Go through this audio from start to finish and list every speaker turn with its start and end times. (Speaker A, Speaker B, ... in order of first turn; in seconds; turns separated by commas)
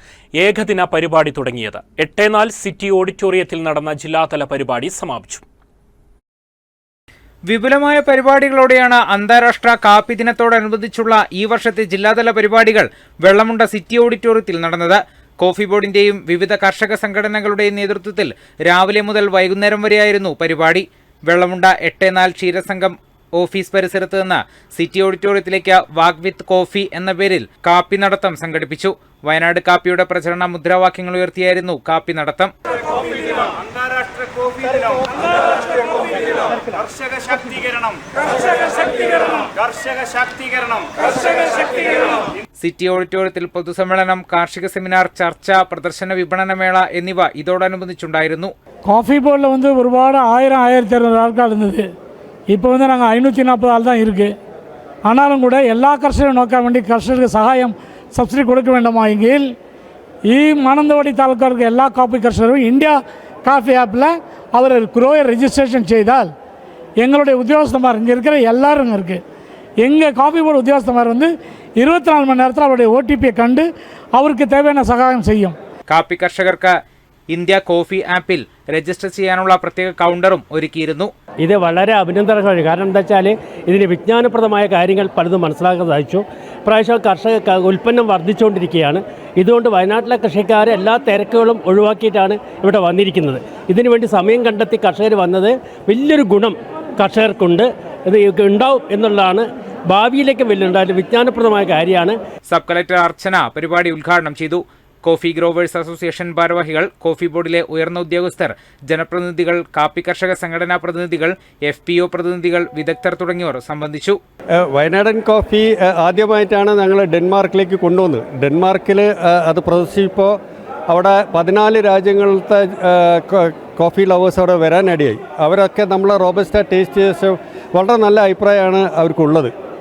Speaker A: 0.4-5.4, Speaker B: 7.5-32.5, Speaker C: 33.6-35.1, Speaker C: 35.9-38.0, Speaker C: 39.6-40.9, Speaker B: 42.6-48.5, Speaker D: 48.9-51.9, Speaker D: 52.5-54.3, Speaker D: 55.0-59.5, Speaker D: 60.3-66.3, Speaker D: 67.0-69.2, Speaker D: 69.8-75.5, Speaker B: 75.9-76.7, Speaker B: 77.3-81.1, Speaker E: 81.4-102.1, Speaker B: 102.5-114.2, Speaker F: 114.6-120.4, Speaker F: 120.9-129.5